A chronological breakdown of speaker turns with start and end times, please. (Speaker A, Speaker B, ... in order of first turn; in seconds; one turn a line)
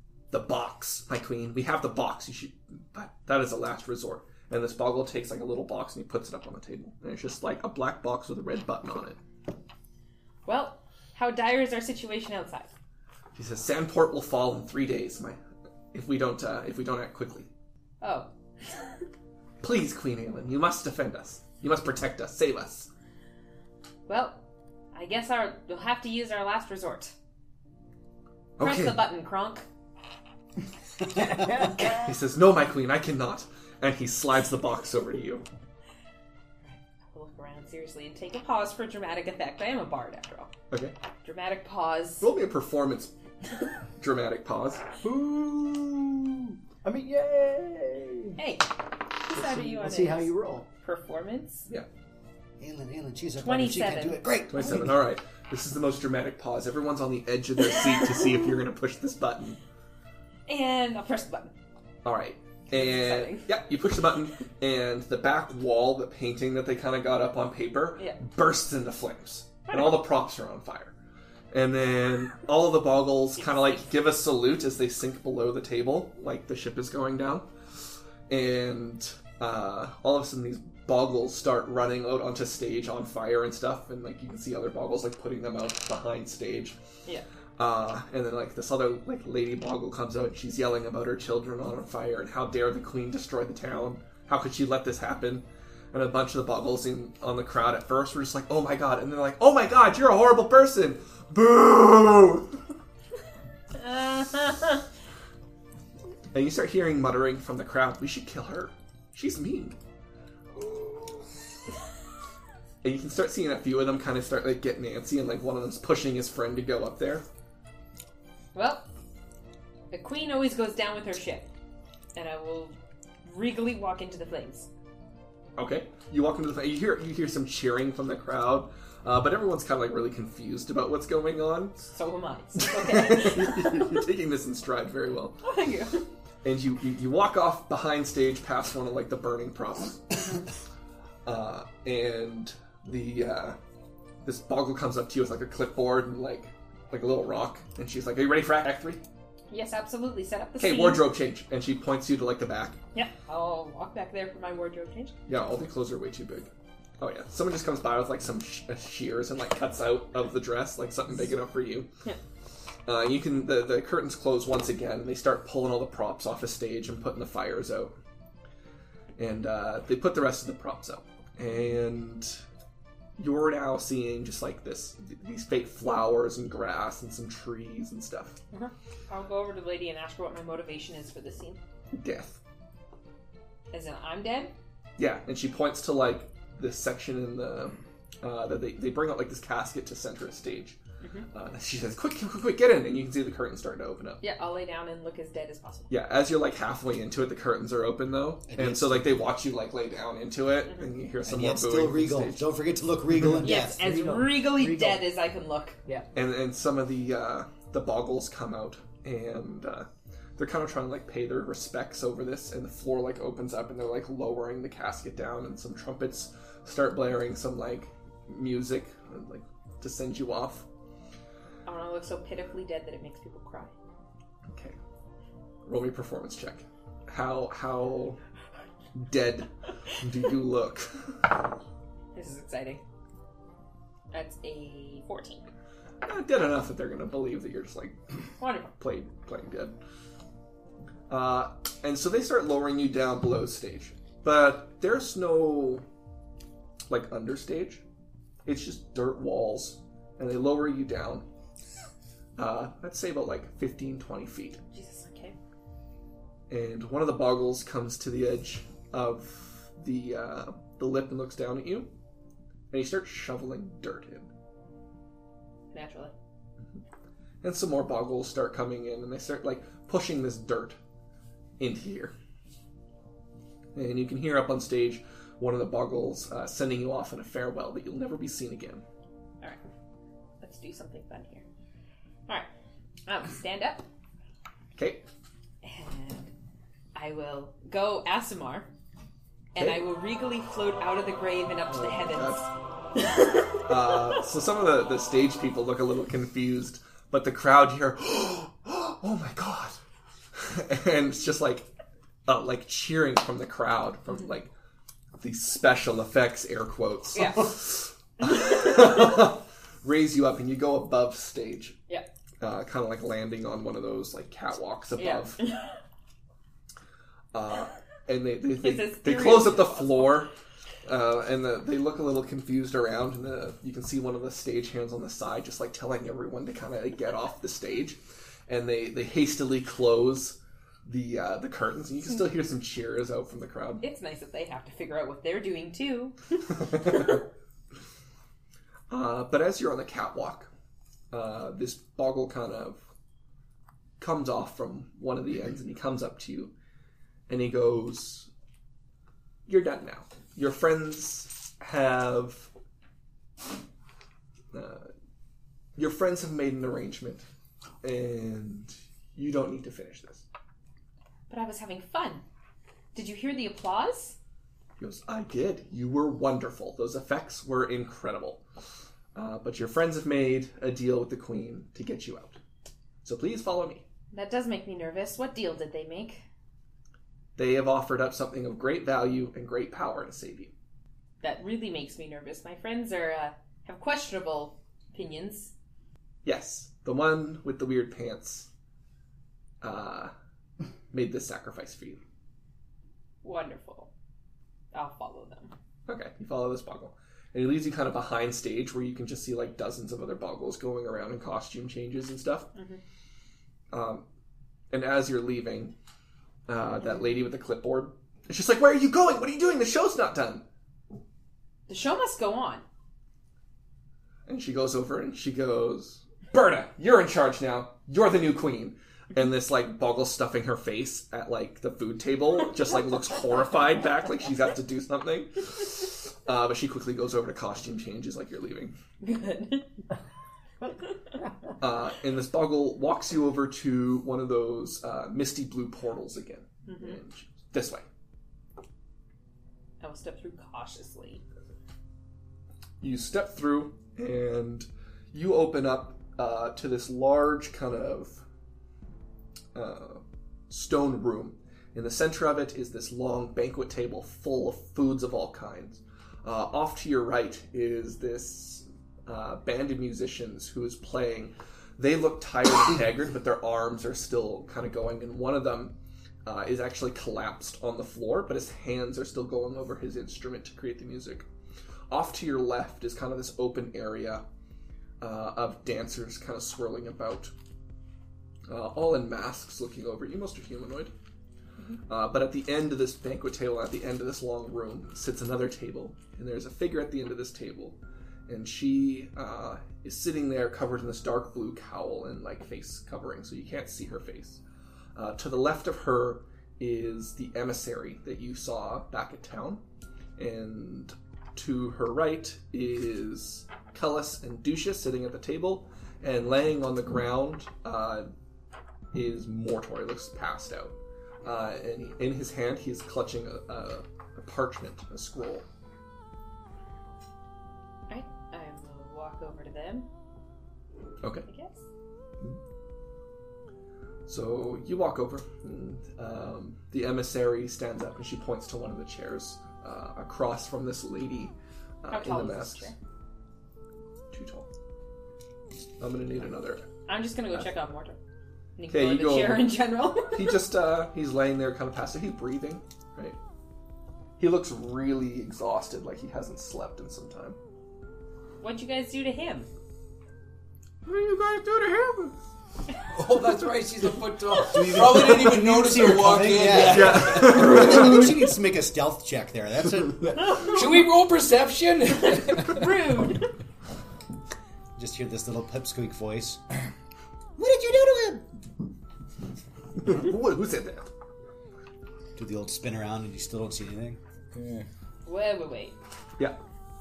Speaker A: 0.3-9.2
Speaker B: 10.5-12.7
Speaker A: 13.3-15.4
Speaker A: 15.9-17.5
Speaker B: 18.0-18.3
Speaker A: 19.6-22.9
Speaker B: 24.1-24.4
Speaker B: 24.9-27.1
Speaker A: 28.6-29.0
Speaker B: 28.6-29.6
Speaker A: 31.4-35.5
Speaker B: 36.6-40.5
Speaker B: 41.2-42.3
Speaker A: 42.2-43.1
Speaker A: 44.0-44.8
Speaker C: 45.0-46.1
Speaker C: 46.9-48.4
Speaker B: 48.4-51.7
Speaker C: 49.4-50.6
Speaker D: 52.6-54.9
Speaker B: 53.4-54.2
Speaker A: 54.5-59.6
Speaker B: 60.5-61.5
Speaker A: 62.0-70.9
Speaker B: 62.7-63.5
Speaker A: 71.5-77.5
Speaker B: 73.4-73.8
Speaker A: 78.3-86.8
Speaker A: 87.6-102.6
Speaker B: 103.7-104.8
Speaker A: 106.3-109.8
Speaker A: 112.8-117.2
Speaker B: 118.5-118.9
Speaker B: 119.9-121.5
Speaker B: 122.2-124.7
Speaker A: 125.6-131.8
Speaker B: 131.8-134.0
Speaker A: 132.6-135.4
Speaker B: 135.4-136.1
Speaker A: 136.4-140.2
Speaker A: 141.2-143.6
Speaker A: 144.2-149.0
Speaker B: 149.5-151.1
Speaker A: 150.6-152.8
Speaker B: 152.9-155.2
Speaker A: 155.3-161.9
Speaker A: 162.9-167.9
Speaker A: 169.2-172.4
Speaker A: 173.2-178.4
Speaker B: 178.5-181.6
Speaker A: 182.0-182.4
Speaker B: 183.7-184.5
Speaker A: 185.0-190.8
Speaker B: 191.0-191.3
Speaker A: 191.3-194.2
Speaker B: 194.2-195.9
Speaker A: 195.9-202.5
Speaker D: 198.5-199.3
Speaker D: 201.2-203.9
Speaker B: 203.4-205.8
Speaker C: 203.8-205.0
Speaker A: 206.1-220.7
Speaker B: 221.7-223.7
Speaker A: 224.5-224.8
Speaker A: 225.7-228.2
Speaker A: 228.9-231.3
Speaker B: 232.1-232.8
Speaker B: 234.1-235.5
Speaker A: 236.0-238.0
Speaker B: 238.4-238.7
Speaker A: 238.8-239.7
Speaker A: 241.1-245.8
Speaker A: 246.9-247.8
Speaker A: 248.4-251.2
Speaker A: 252.4-254.6
Speaker B: 254.7-255.4
Speaker A: 256.5-261.9
Speaker A: 262.7-264.3
Speaker B: 265.7-266.1
Speaker A: 267.4-270.8
Speaker A: 271.6-272.1
Speaker A: 273.8-278.8
Speaker B: 280.4-281.4
Speaker B: 283.1-283.9
Speaker A: 284.8-285.1
Speaker B: 285.6-286.3
Speaker B: 286.9-288.7
Speaker B: 289.6-292.5
Speaker A: 289.6-289.8
Speaker A: 291.7-292.4
Speaker A: 293.7-299.8
Speaker A: 300.3-301.7
Speaker A: 302.3-304.5
Speaker A: 305.2-311.8
Speaker B: 307.1-307.5
Speaker A: 312.4-315.4
Speaker B: 315.0-315.4
Speaker A: 317.3-320.3
Speaker B: 318.6-320.2
Speaker A: 320.9-333.8
Speaker B: 333.8-336.2
Speaker A: 336.6-337.2
Speaker A: 338.9-340.5
Speaker A: 341.1-342.8
Speaker A: 344.0-346.5
Speaker A: 347.3-348.3
Speaker A: 349.5-352.5
Speaker A: 354.5-354.9
Speaker A: 355.8-357.3
Speaker A: 357.8-360.2
Speaker B: 361.3-362.2
Speaker B: 362.9-364.2
Speaker A: 364.8-368.4
Speaker A: 369.1-372.4
Speaker A: 373.0-373.9
Speaker B: 374.1-376.2
Speaker A: 377.4-380.5
Speaker B: 381.2-385.5
Speaker A: 386.2-388.5
Speaker A: 389.6-390.1
Speaker A: 390.9-392.0
Speaker B: 393.2-393.9
Speaker B: 394.7-395.5
Speaker A: 395.9-402.5
Speaker B: 402.6-402.8
Speaker A: 403.7-404.0
Speaker A: 404.7-405.8
Speaker A: 406.5-410.4
Speaker B: 411.7-412.6
Speaker A: 414.3-428.8
Speaker B: 429.0-429.7
Speaker A: 431.6-437.9
Speaker B: 436.7-437.0
Speaker B: 439.8-441.2
Speaker A: 442.8-448.2
Speaker A: 449.5-471.3
Speaker A: 471.9-474.2
Speaker A: 475.0-477.3
Speaker A: 478.5-480.9
Speaker A: 481.9-494.4
Speaker A: 494.9-499.6
Speaker A: 500.2-508.1
Speaker A: 508.9-515.5
Speaker B: 517.9-519.9
Speaker A: 521.0-521.3
Speaker B: 521.3-521.6
Speaker A: 524.1-532.7
Speaker B: 531.9-532.8
Speaker A: 534.1-534.5
Speaker A: 535.8-536.7
Speaker B: 536.9-538.0
Speaker B: 538.6-540.4
Speaker A: 538.7-539.6
Speaker A: 540.1-543.2
Speaker A: 544.2-547.4
Speaker B: 548.4-549.5
Speaker A: 550.9-552.1
Speaker E: 552.9-558.1
Speaker D: 554.5-560.5
Speaker A: 556.5-558.1
Speaker E: 560.4-562.7
Speaker B: 562.0-563.3
Speaker D: 564.8-566.4
Speaker C: 567.4-568.2
Speaker A: 569.8-570.9
Speaker D: 572.2-574.0
Speaker E: 574.3-574.7
Speaker B: 575.1-575.8